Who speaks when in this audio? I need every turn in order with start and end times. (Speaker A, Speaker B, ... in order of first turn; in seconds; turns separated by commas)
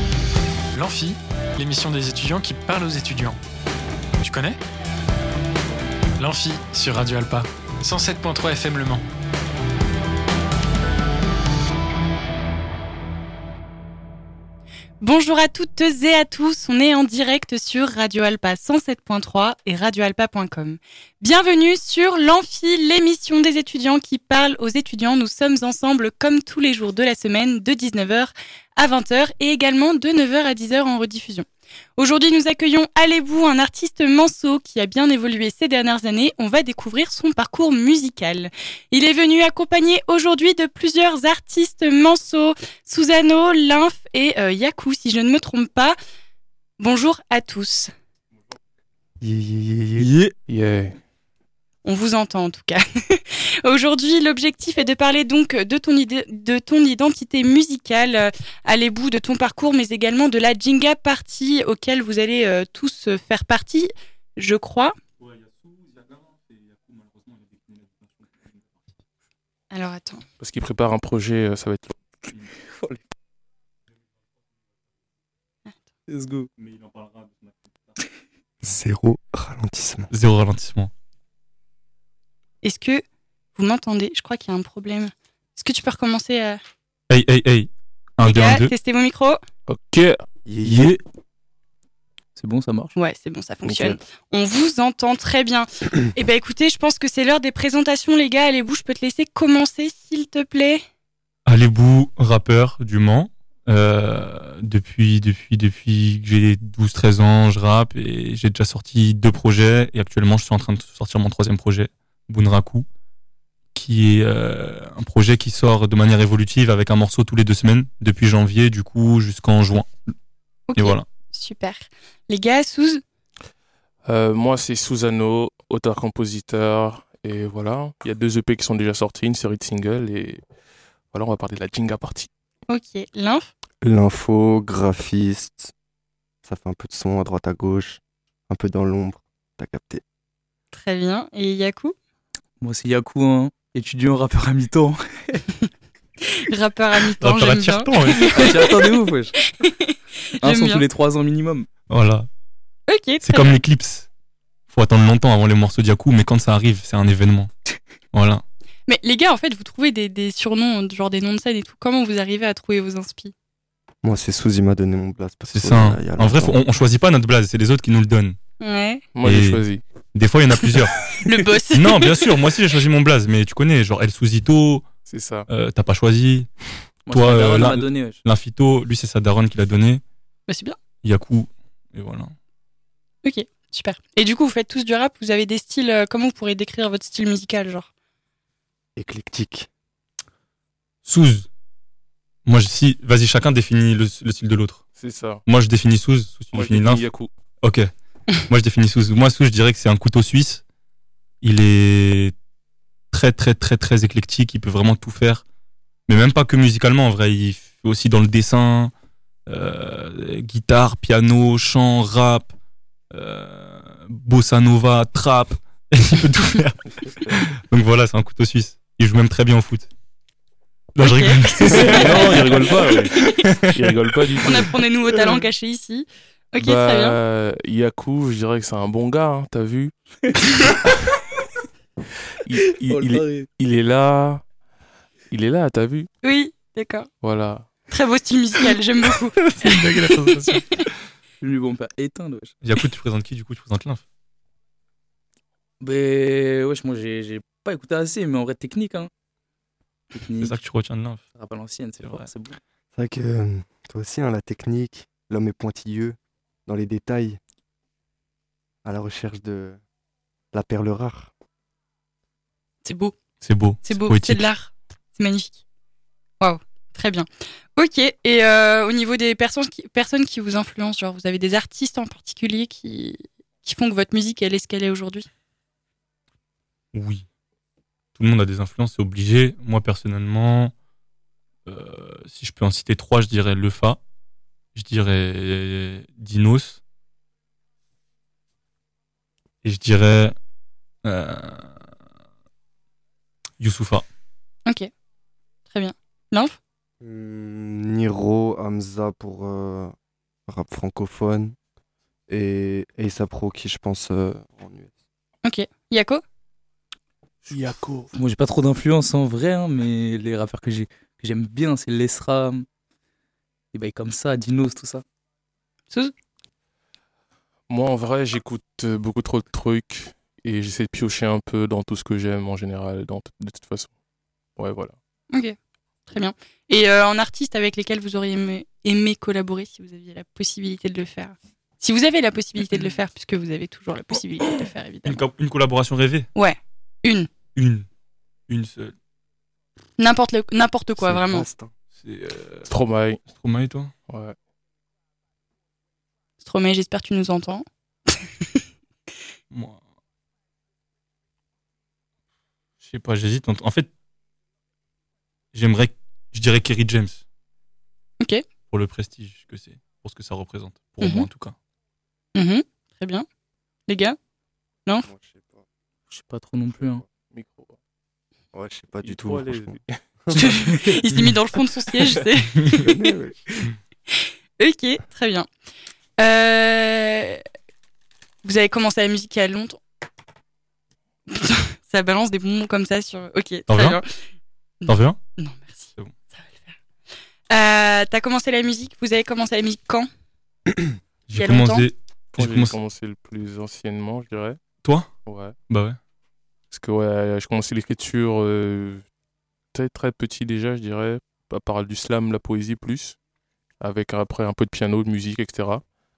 Speaker A: 0.7-3.4, Speaker A: 4.2-4.6, Speaker A: 6.2-9.0, Speaker B: 15.0-46.0, Speaker B: 46.8-47.9, Speaker C: 49.2-51.0, Speaker D: 50.0-50.3, Speaker B: 51.8-65.0, Speaker D: 65.2-68.2, Speaker B: 69.7-70.2, Speaker C: 70.4-72.0, Speaker E: 72.7-73.0, Speaker E: 76.1-76.5, Speaker D: 76.6-77.6, Speaker F: 78.6-80.1, Speaker D: 80.1-80.9, Speaker B: 82.6-83.0, Speaker B: 83.5-86.6, Speaker D: 87.1-88.7, Speaker B: 88.2-89.4, Speaker C: 89.7-90.9, Speaker E: 90.7-91.0, Speaker E: 92.4-92.9, Speaker B: 93.0-100.8, Speaker C: 93.7-94.0, Speaker D: 101.5-112.9, Speaker D: 113.7-119.9, Speaker B: 120.7-123.0, Speaker D: 120.8-121.0, Speaker C: 124.1-130.4, Speaker C: 131.1-132.3, Speaker B: 132.7-133.5, Speaker F: 133.8-135.7, Speaker F: 136.4-140.0, Speaker B: 140.7-141.9, Speaker E: 142.6-145.4, Speaker B: 146.3-148.8, Speaker D: 147.2-148.7, Speaker E: 148.3-149.4, Speaker B: 149.6-150.8, Speaker E: 150.4-151.7, Speaker D: 151.9-152.3, Speaker B: 152.9-153.6, Speaker D: 153.2-154.1, Speaker D: 154.7-157.5, Speaker D: 158.1-158.4, Speaker B: 158.9-163.3, Speaker F: 164.0-166.6, Speaker D: 165.5-168.4, Speaker B: 168.6-169.0, Speaker C: 169.2-169.8, Speaker D: 169.2-169.6, Speaker D: 170.2-171.1, Speaker B: 171.1-172.2, Speaker D: 171.7-174.8, Speaker C: 175.1-175.5, Speaker D: 175.5-176.5, Speaker E: 177.1-178.2, Speaker D: 177.1-180.0, Speaker B: 180.5-180.8, Speaker D: 181.0-182.3, Speaker B: 183.2-187.9, Speaker F: 189.0-189.7, Speaker D: 191.1-191.5, Speaker D: 192.5-194.9, Speaker C: 195.0-195.4, Speaker D: 195.5-197.0, Speaker C: 196.5-197.3, Speaker D: 197.6-200.6, Speaker D: 201.4-202.3, Speaker D: 203.1-205.4, Speaker D: 206.1-208.9, Speaker D: 209.5-212.5, Speaker D: 213.1-219.9, Speaker D: 221.0-223.8, Speaker B: 221.0-222.4, Speaker C: 221.7-223.2, Speaker C: 223.7-224.7, Speaker B: 224.4-227.2, Speaker C: 226.6-229.9, Speaker C: 232.5-234.4, Speaker E: 232.8-233.5, Speaker C: 235.3-236.1, Speaker B: 236.2-237.1, Speaker C: 237.2-237.7, Speaker B: 237.9-239.9, Speaker C: 239.6-240.7, Speaker E: 241.4-242.6, Speaker D: 242.6-244.0, Speaker E: 245.8-249.1, Speaker E: 250.1-250.6, Speaker D: 250.4-251.2, Speaker E: 251.3-252.6, Speaker D: 252.0-252.3, Speaker F: 252.9-257.4, Speaker F: 258.8-259.8, Speaker F: 260.5-261.3, Speaker B: 262.9-263.2, Speaker D: 263.4-264.4, Speaker B: 263.8-265.6, Speaker B: 266.4-275.2, Speaker D: 276.9-277.2, Speaker D: 278.2-280.7, Speaker D: 281.7-284.0, Speaker D: 284.8-286.8, Speaker D: 289.6-290.4, Speaker D: 291.0-291.7, Speaker D: 293.6-294.1, Speaker B: 295.7-296.6, Speaker F: 297.0-299.9, Speaker F: 300.5-301.6, Speaker F: 302.3-304.9, Speaker B: 305.4-306.2, Speaker C: 307.4-308.1, Speaker E: 308.1-312.7, Speaker E: 313.7-315.0, Speaker C: 317.7-323.9, Speaker C: 324.6-324.9, Speaker B: 326.1-335.2, Speaker D: 335.1-336.3, Speaker B: 336.4-337.3, Speaker D: 337.6-337.9, Speaker D: 338.5-338.9, Speaker B: 340.0-341.5, Speaker F: 341.0-341.7, Speaker D: 342.0-342.7, Speaker C: 342.7-343.2, Speaker D: 343.3-343.9, Speaker C: 344.1-344.4, Speaker B: 346.4-348.2, Speaker D: 349.5-349.8, Speaker D: 352.8-353.9, Speaker D: 355.5-357.2, Speaker D: 358.7-361.6, Speaker B: 361.0-361.3, Speaker B: 362.4-363.2, Speaker B: 363.9-364.2, Speaker F: 365.1-365.6, Speaker E: 366.1-367.0, Speaker C: 367.3-367.8, Speaker F: 368.5-369.8, Speaker C: 369.0-370.7, Speaker B: 370.4-372.8, Speaker F: 372.9-373.6, Speaker B: 374.1-375.5, Speaker B: 376.2-377.4, Speaker B: 378.4-379.8, Speaker B: 381.3-384.1, Speaker D: 383.7-384.0, Speaker B: 384.9-385.9, Speaker D: 384.9-385.2, Speaker B: 387.5-390.1, Speaker D: 391.3-392.8, Speaker B: 391.3-391.9, Speaker C: 392.4-394.6, Speaker D: 394.8-395.1, Speaker C: 395.3-395.5, Speaker D: 395.7-396.0, Speaker C: 396.7-399.0, Speaker C: 399.7-403.2, Speaker C: 403.8-405.8